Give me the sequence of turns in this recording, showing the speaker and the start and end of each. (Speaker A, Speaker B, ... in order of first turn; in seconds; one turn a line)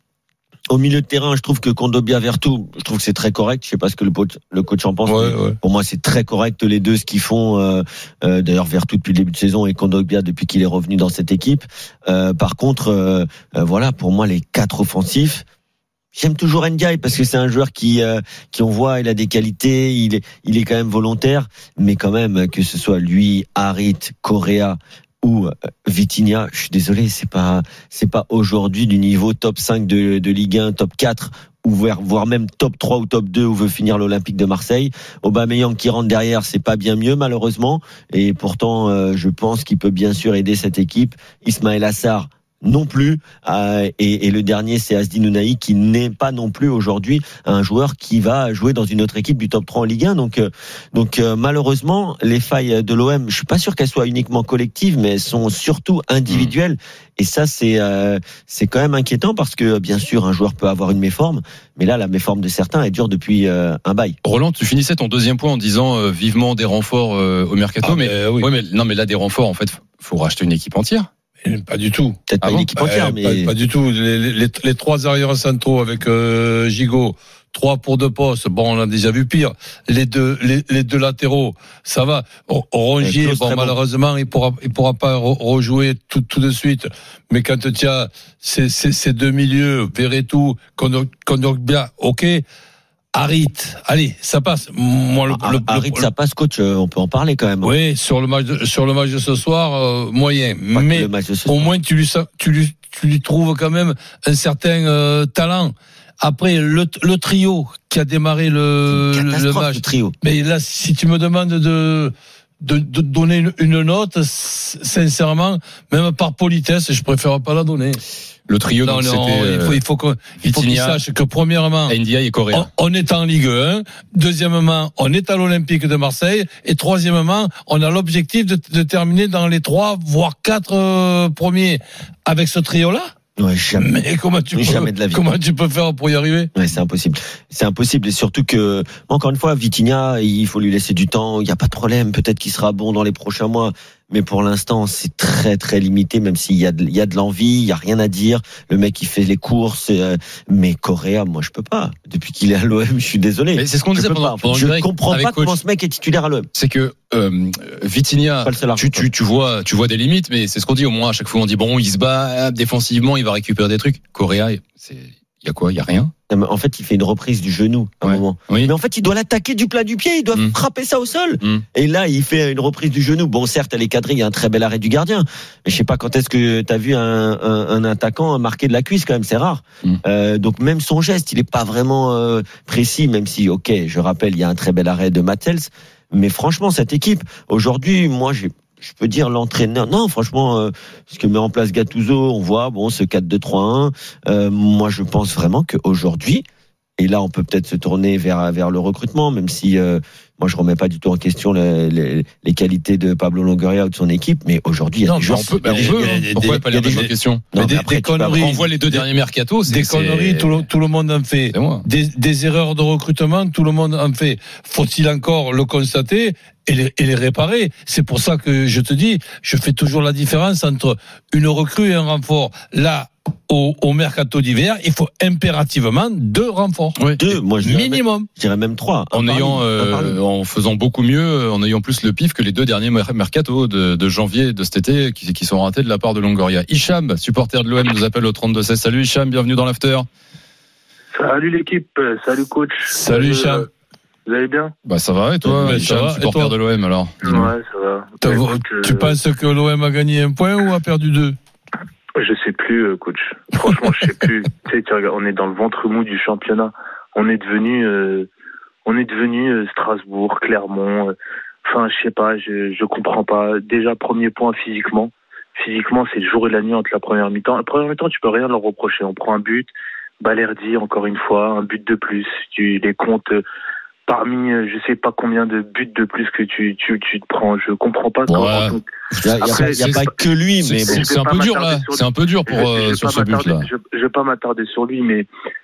Speaker A: 0.7-15.4
Speaker B: 5.0-5.6
Speaker A: 16.1-64.2
Speaker C: 56.3-56.5
Speaker C: 64.2-71.1
Speaker B: 67.8-68.5
Speaker B: 71.4-72.2
Speaker A: 72.3-73.5
Speaker C: 72.4-72.7
Speaker B: 72.8-92.4
Speaker A: 83.0-83.7
Speaker B: 93.1-96.1
Speaker A: 95.3-97.7
Speaker B: 97.6-118.0
Speaker A: 100.7-101.7
Speaker A: 108.9-110.1
Speaker C: 118.5-119.8
Speaker B: 118.8-122.0
Speaker C: 120.4-121.0
Speaker C: 121.9-122.7
Speaker B: 122.5-133.1
Speaker A: 133.4-133.9
Speaker B: 133.8-136.5
Speaker A: 134.5-135.2
Speaker A: 136.5-156.5
Speaker C: 153.5-155.6
Speaker C: 156.5-166.1
Speaker A: 158.4-159.1
Speaker A: 166.3-196.4
Speaker C: 168.0-168.7
Speaker A: 197.0-208.5
Speaker B: 205.0-206.6
Speaker C: 205.3-207.5
Speaker B: 207.5-209.0
Speaker C: 208.3-210.7
Speaker B: 209.6-227.0
Speaker C: 211.5-211.8
Speaker A: 227.2-230.2
Speaker B: 227.6-228.3
Speaker C: 229.1-240.1
Speaker D: 241.1-243.7
Speaker B: 242.8-243.7
Speaker D: 244.2-244.7
Speaker C: 244.8-247.5
Speaker B: 245.4-246.6
Speaker D: 247.2-249.2
Speaker B: 248.2-251.3
Speaker D: 252.2-258.3
Speaker D: 258.9-261.1
Speaker D: 261.6-273.4
Speaker D: 274.1-278.9
Speaker C: 278.3-283.7
Speaker A: 279.2-281.1
Speaker D: 279.4-279.8
Speaker D: 280.8-285.3